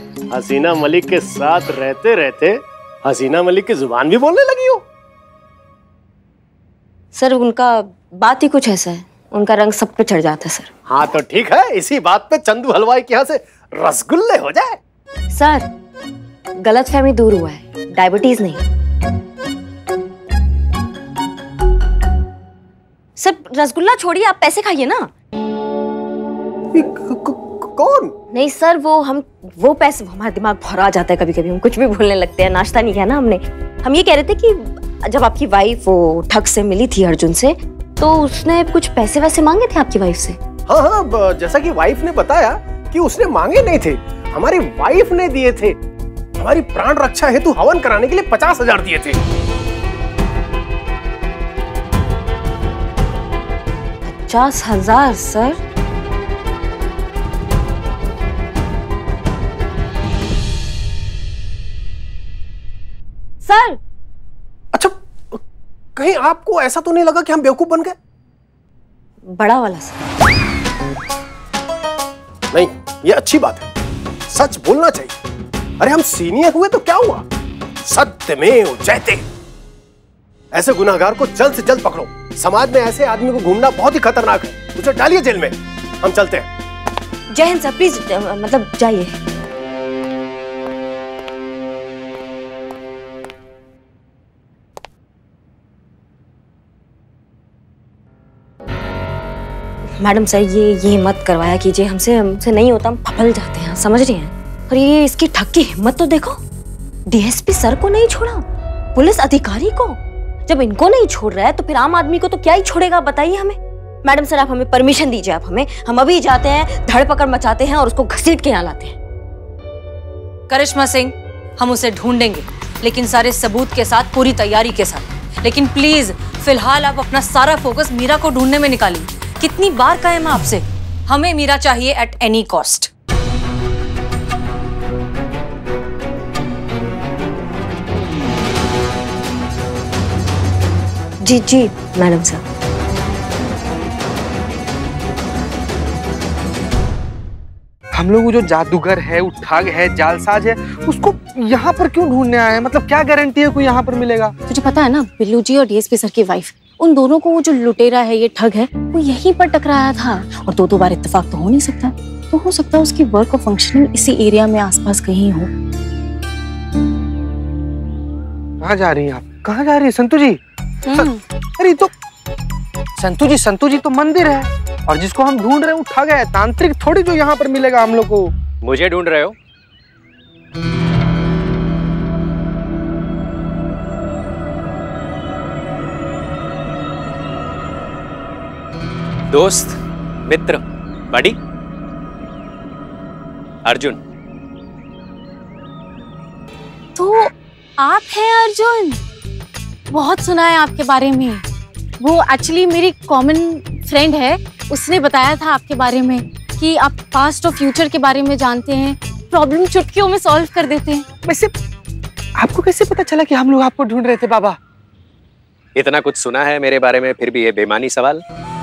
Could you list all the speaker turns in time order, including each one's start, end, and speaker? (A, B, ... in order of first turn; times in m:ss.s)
0:00.3-0:04.8 A
0:07.2-0:10.7 B
0:10.9-0:14.8 A
0:15.3-0:15.7 B
0:16.6-0:18.6 B
0:23.2-0:25.1 B
0:26.7-0:28.1 A
0:28.3-0:40.4 B
0:40.7-0:45.8 A
0:46.4-0:49.2 A
0:54.1-0:55.6 B
1:03.4-1:03.8 B
1:04.7-1:05.4 A
1:06.0-1:08.0 A
1:09.3-1:10.0 B
1:12.5-1:13.7 A
1:14.3-1:15.2 A
1:15.8-1:17.2 A
1:17.9-1:19.2 A
1:20.5-1:26.5 A
1:27.3-1:29.2 B
1:40.0-1:46.4 B
1:47.1-1:48.4 B
1:49.0-1:59.0 B
2:00.5-2:12.9 C
2:21.2-2:22.4 B
2:27.9-2:34.4 D
2:34.5-2:45.5 E
2:48.6-2:50.4 D
2:50.9-2:51.2 E
2:51.0-2:51.9 D
2:53.0-2:58.3 D
2:58.6-2:59.4 F
3:09.3-3:11.4 F
3:13.7-3:14.0 F
3:17.0-3:19.0 E
3:19.9-3:21.4 E
3:22.0-3:31.0 E
3:31.3-3:31.5 D
3:32.4-3:34.6 D
3:35.8-3:38.2 F